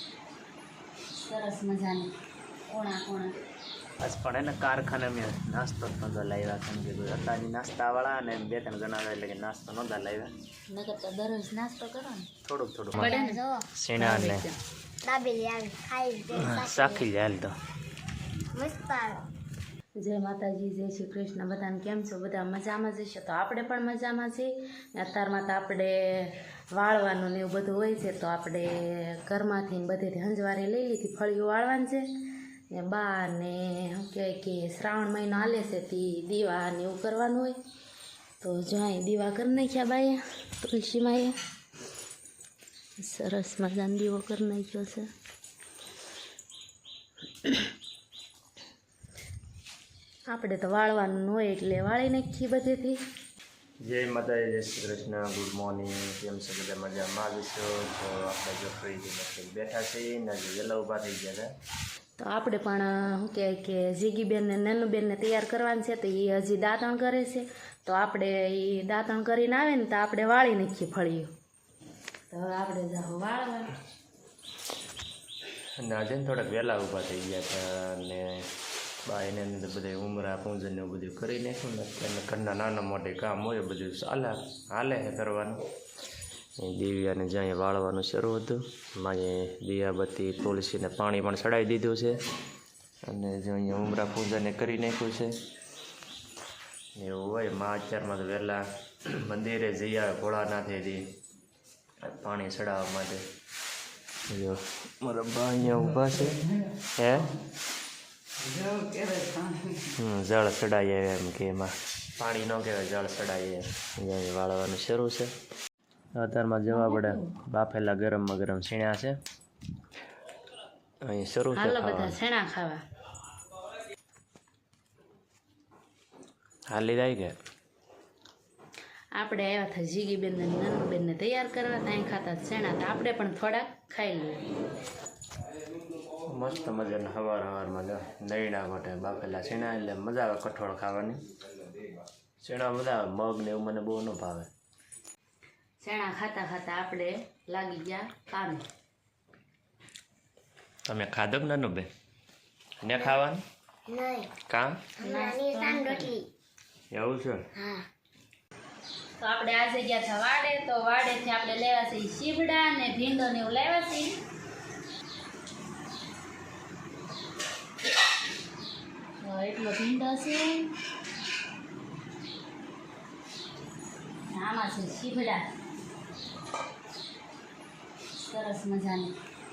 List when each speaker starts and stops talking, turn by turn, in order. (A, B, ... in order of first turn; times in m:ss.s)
0:01.2-0:02.1 A
0:02.7-0:03.3 A
0:04.0-0:10.3 B
0:10.7-0:12.3 A
0:12.4-0:13.2 B
0:12.9-0:13.4 A
0:13.0-0:13.6 C
0:13.7-0:14.5 B
0:14.0-0:14.6 A
0:15.0-0:17.0 C
0:16.3-0:17.5 B
0:18.6-0:19.2 C
0:20.0-0:32.0 A
0:32.7-0:37.6 A
0:38.4-0:41.4 A
0:43.0-0:45.1 A
0:50.3-0:53.0 A
0:53.8-1:01.5 B
1:02.2-1:11.3 A
1:12.3-1:13.7 A
1:15.8-1:18.4 B
1:19.1-1:25.6 B
1:26.6-1:32.2 B
1:33.1-1:35.3 B
1:37.0-1:41.0 B
1:42.0-1:43.2 B
1:44.3-1:46.4 B
1:47.0-1:47.3 B
1:49.9-1:55.3 B
1:56.1-1:59.2 B
2:01.0-2:02.2 B
2:01.5-2:02.8 A
2:06.7-2:07.3 B
2:09.1-2:14.4 A
2:16.2-2:21.2 B
2:22.4-2:24.5 B
2:25.8-2:28.6 A
2:30.9-2:31.9 B
2:32.8-2:33.4 B
2:33.9-2:34.3 C
2:34.5-2:34.7 B
2:35.0-2:36.2 C
2:35.0-2:36.1 A
2:36.9-2:37.5 B
2:37.6-2:37.8 C
2:39.2-2:44.2 A
2:49.2-2:50.7 A
2:54.3-2:55.4 A
2:58.3-2:59.2 A